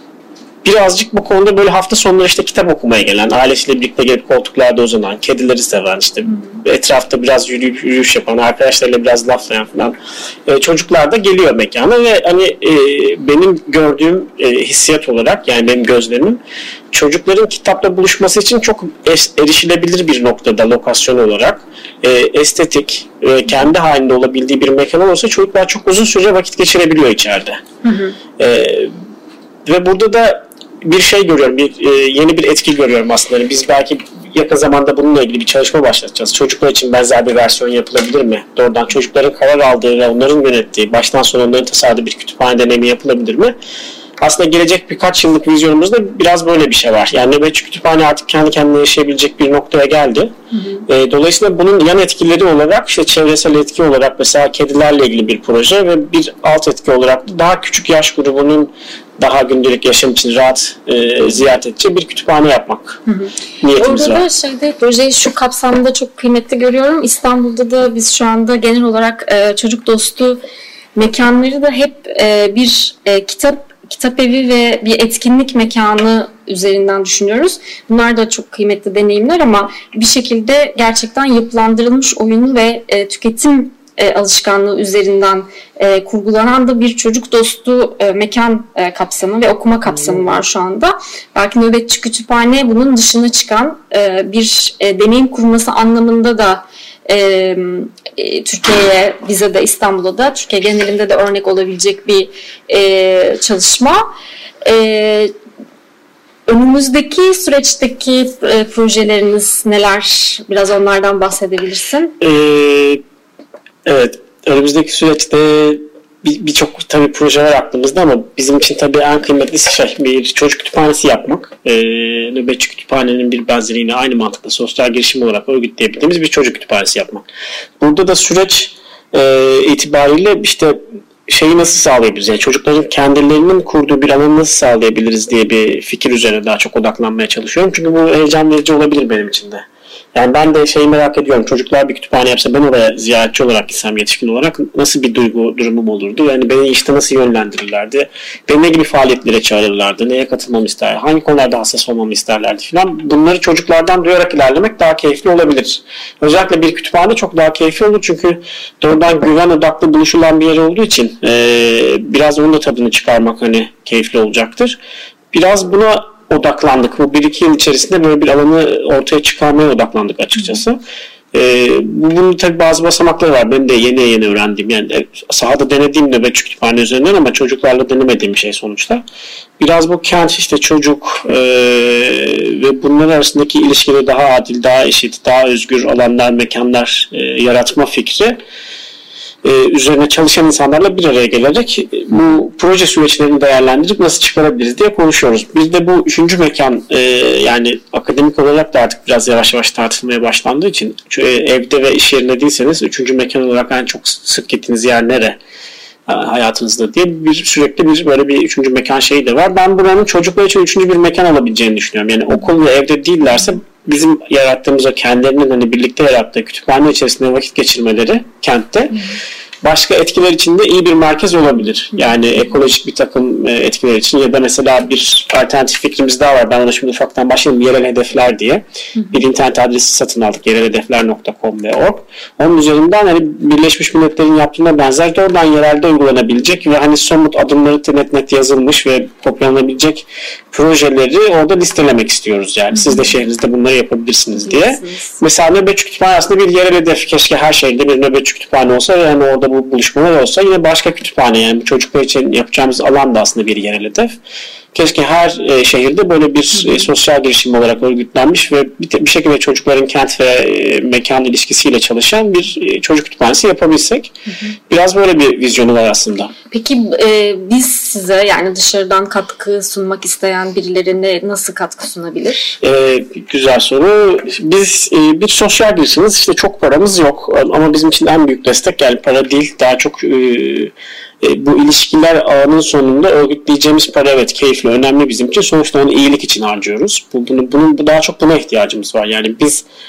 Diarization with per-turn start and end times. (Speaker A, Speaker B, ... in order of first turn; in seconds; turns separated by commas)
Speaker A: 0.6-9.9, Speaker A: 10.5-16.4, Speaker A: 16.9-27.6, Speaker B: 27.8-28.2, Speaker A: 28.4-28.9, Speaker A: 29.7-43.5, Speaker A: 44.2-50.3, Speaker A: 50.9-63.0, Speaker B: 63.1-70.4, Speaker A: 63.6-64.2, Speaker B: 71.0-104.0, Speaker B: 104.7-105.3, Speaker B: 106.5-112.1, Speaker A: 112.2-113.0, Speaker A: 113.9-127.3, Speaker A: 127.8-164.8, Speaker A: 165.3-170.8, Speaker A: 171.3-179.0, Speaker A: 179.6-188.4, Speaker A: 189.4-205.4, Speaker A: 206.1-219.1, Speaker A: 219.6-254.2, Speaker B: 242.7-243.1, Speaker B: 244.3-245.2, Speaker A: 254.7-264.1, Speaker B: 256.6-256.9, Speaker A: 264.7-266.3, Speaker B: 266.5-272.6, Speaker A: 272.6-289.6